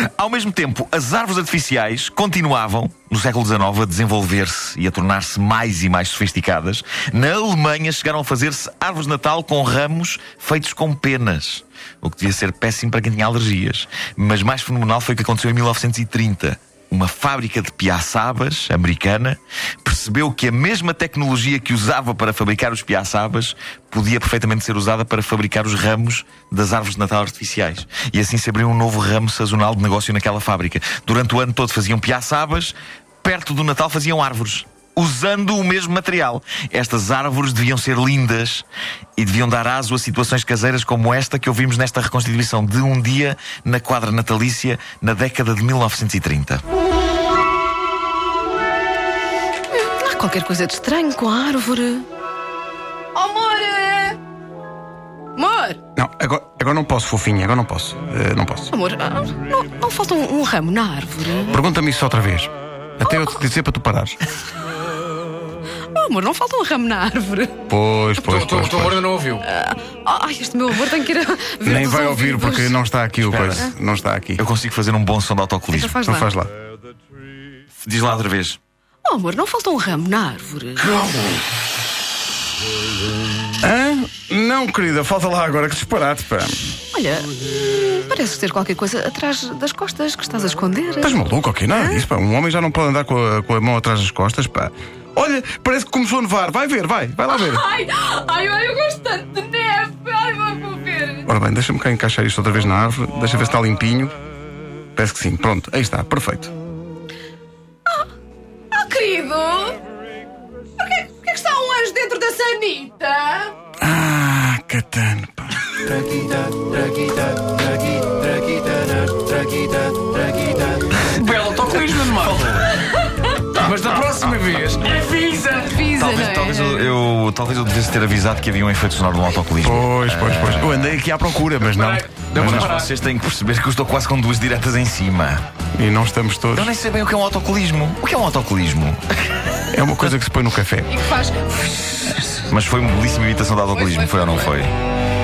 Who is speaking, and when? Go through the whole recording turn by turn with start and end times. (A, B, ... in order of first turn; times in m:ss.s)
0:00.2-0:38.7 A
0:39.2-0:46.6 A
0:49.8-0:52.1 B
0:53.2-0:54.2 B
0:55.4-0:55.8 B
0:56.0-0:58.7 C
0:58.7-1:01.5 B
1:01.5-1:04.2 C
1:03.1-1:03.4 B
1:05.9-1:07.6 B
1:07.7-1:09.0 C
1:08.2-1:09.4 D
1:09.4-1:12.8 B
1:11.6-1:14.4 C
1:13.2-1:13.7 A
1:14.4-1:16.0 A
1:15.7-1:16.3 B
1:16.0-1:16.5 C
1:17.8-1:18.6 A
1:19.1-1:20.9 B
1:23.6-1:26.6 C
1:26.9-1:32.0 B
1:31.0-1:37.6 C
1:37.3-1:41.3 B
1:41.3-1:44.2 C
1:45.0-1:46.5 C
1:48.7-1:49.8 B
1:50.8-1:53.6 B
1:53.8-1:55.7 C
2:01.1-2:02.8 D
2:02.2-2:02.7 A
2:03.5-2:05.8 D
2:05.6-2:06.9 B
2:06.0-2:11.0 A
2:09.6-2:12.7 C
2:11.6-2:12.9 D
2:12.4-2:15.4 A
2:15.8-2:16.7 C
2:16.5-2:19.0 A
2:19.7-2:20.9 C
2:20.9-2:21.6 B
2:22.1-2:24.7 A
2:23.7-2:24.5 B